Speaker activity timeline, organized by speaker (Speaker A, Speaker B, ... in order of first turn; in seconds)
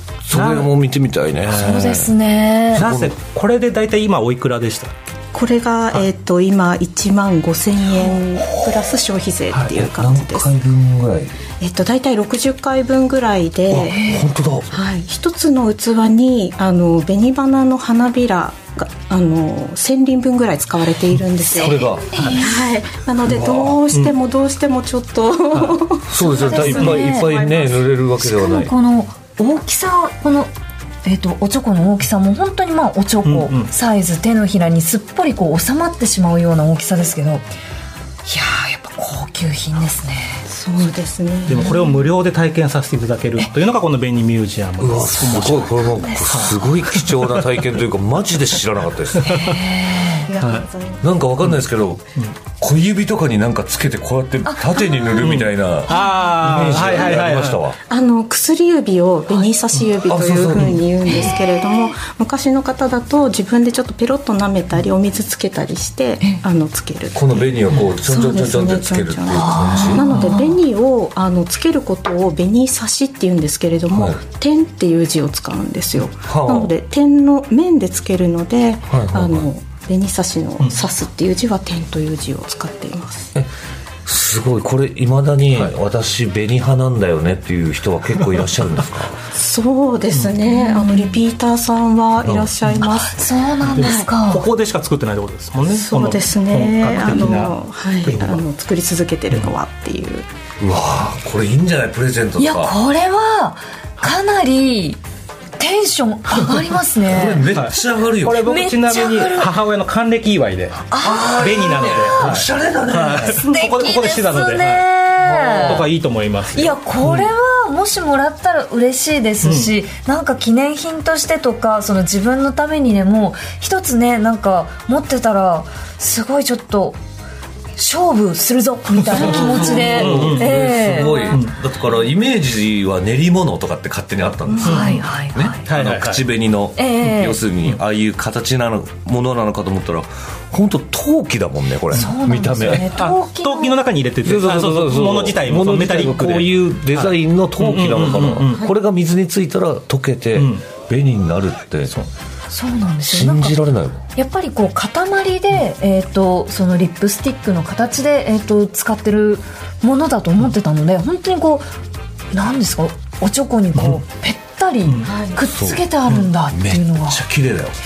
Speaker A: 0.2-2.1, 2.7-3.1, 9.7-11.3, 13.7-14.8, 21.4-22.3, 23.2-23.8, 26.1-28.7, 44.8-49.5, 50.4-52.1, 52.6-57.8, 60.1-60.8, 67.1-70.1, 76.2-76.8, 78.9-79.5, 84.0-89.2, 92.2-92.5, 100.6-102.7, 107.0-108.6, 111.0-113.5, 115.2-115.9, 129.1-142.9, 144.2-151.9, 153.1-154.0, 165.5-165.8, 166.5-167.8
Speaker B: 0.3-0.7, 2.7-4.9, 9.5-9.8, 23.9-24.1, 25.5-25.8, 33.2-33.7, 41.5-47.5, 49.1-49.7, 55.2-57.6, 60.5-60.8, 93.6-98.4, 107.5-114.8, 115.6-117.3, 119.4-119.7, 129.1-131.6, 134.6-135.0, 135.7-136.2, 142.8-148.7, 150.3-150.7, 164.9-165.1
Speaker C: 1.5-2.9, 13.9-14.3, 21.7-22.7, 26.4-27.4, 28.2-30.5, 31.0-37.4, 38.3-40.4, 46.0-46.5, 49.2-50.3, 54.5-55.2, 55.9-56.2, 61.3-61.9, 69.3-70.6, 90.5-91.2, 93.1-94.5, 102.4-105.0, 105.6-107.5, 108.5-109.5, 110.9-111.9, 113.2-115.9, 116.5-127.0, 127.8-131.4, 134.6-135.7, 136.8-137.4, 141.9-143.8, 152.5-153.6, 154.2-161.7, 162.3-167.2
Speaker D: 5.3-10.5, 11.6-27.8, 40.5-41.9, 50.1-51.1, 57.9-83.3, 89.3-94.1, 95.7-100.3, 134.5-135.0, 165.1-165.4